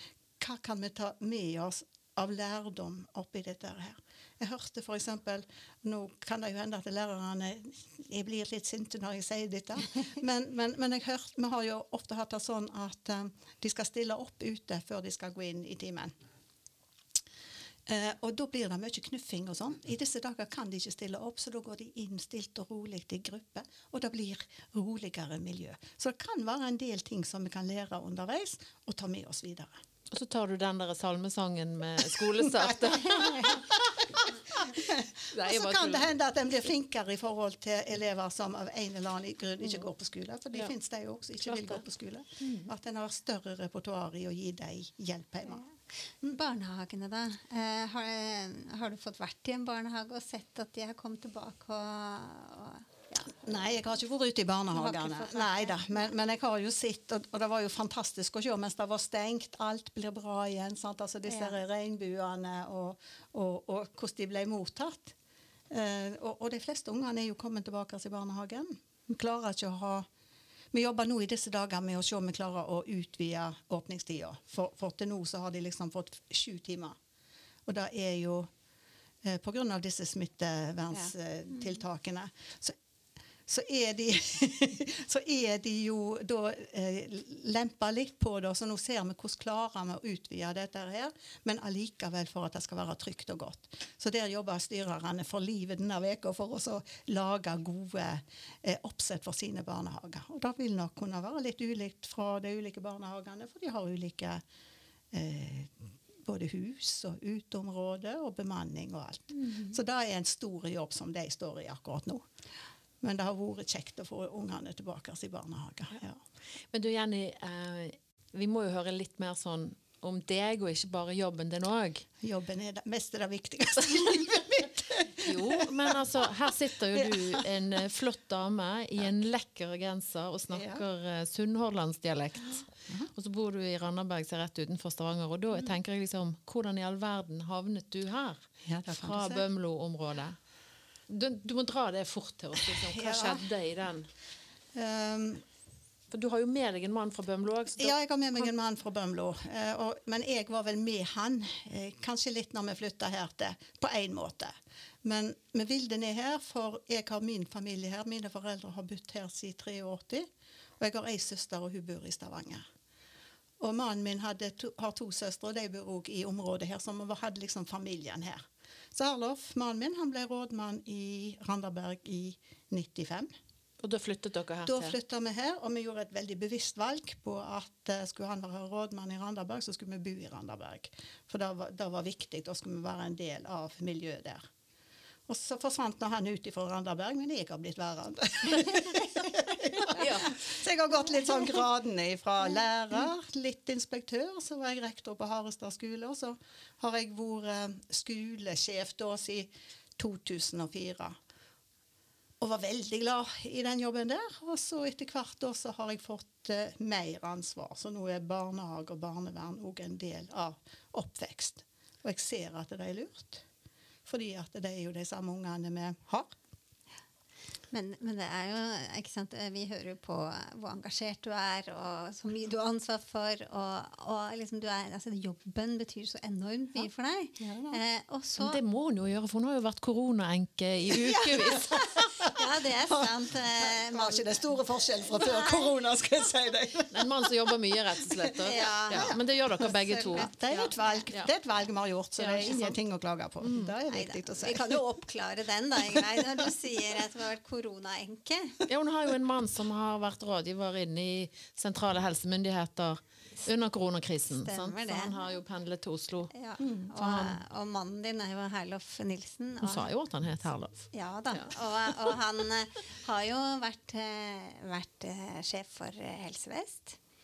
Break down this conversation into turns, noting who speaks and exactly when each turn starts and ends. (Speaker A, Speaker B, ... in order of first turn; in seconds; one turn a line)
Speaker A: 0.4-16.1
Speaker A: 17.9-29.7
Speaker B: 30.1-33.7
Speaker A: 32.4-45.6
Speaker B: 35.3-36.1
Speaker B: 41.4-41.8
Speaker B: 42.4-42.7
Speaker C: 46.3-53.4
Speaker A: 53.2-65.1
Speaker C: 54.7-55.9
Speaker C: 61.3-61.5
Speaker A: 65.7-70.1
Speaker A: 70.7-77.0
Speaker A: 77.7-78.5
Speaker A: 79.2-82.7
Speaker A: 83.5-104.4
Speaker A: 105.1-112.2
Speaker A: 113.0-116.2
Speaker B: 116.7-122.1
Speaker A: 122.2-126.2
Speaker B: 125.2-140.4
Speaker A: 126.9-127.4
Speaker A: 130.5-130.8
Speaker A: 138.6-139.4
Speaker B: 141.1-144.1
Speaker A: 142.7-143.4
Speaker A: 144.7-145.4
Speaker B: 146.1-147.9
Speaker A: 147.8-160.3
Speaker A: 160.8-162.6
Speaker A: 163.6-173.3
Speaker B: 173.8-175.0
Speaker A: 174.6-184.4
Speaker A: 185.3-201.1
Speaker B: 189.9-190.3
Speaker A: 202.4-213.4
Speaker A: 214.0-216.3
Speaker C: 217.7-228.6
Speaker A: 227.4-227.8
Speaker B: 228.4-231.8
Speaker C: 231.0-234.4
Speaker A: 231.6-232.4
Speaker A: 232.9-237.3
Speaker C: 235.1-235.7
Speaker B: 236.9-240.3
Speaker C: 238.4-241.0
Speaker A: 238.9-239.2
Speaker A: 240.1-244.8
Speaker B: 242.2-242.8
Speaker B: 243.4-243.7
Speaker C: 243.8-248.6
Speaker A: 245.9-246.5
Speaker B: 248.7-256.3
Speaker C: 254.3-255.2
Speaker C: 256.3-259.9
Speaker B: 256.9-257.4
Speaker B: 259.6-261.6
Speaker C: 260.9-267.0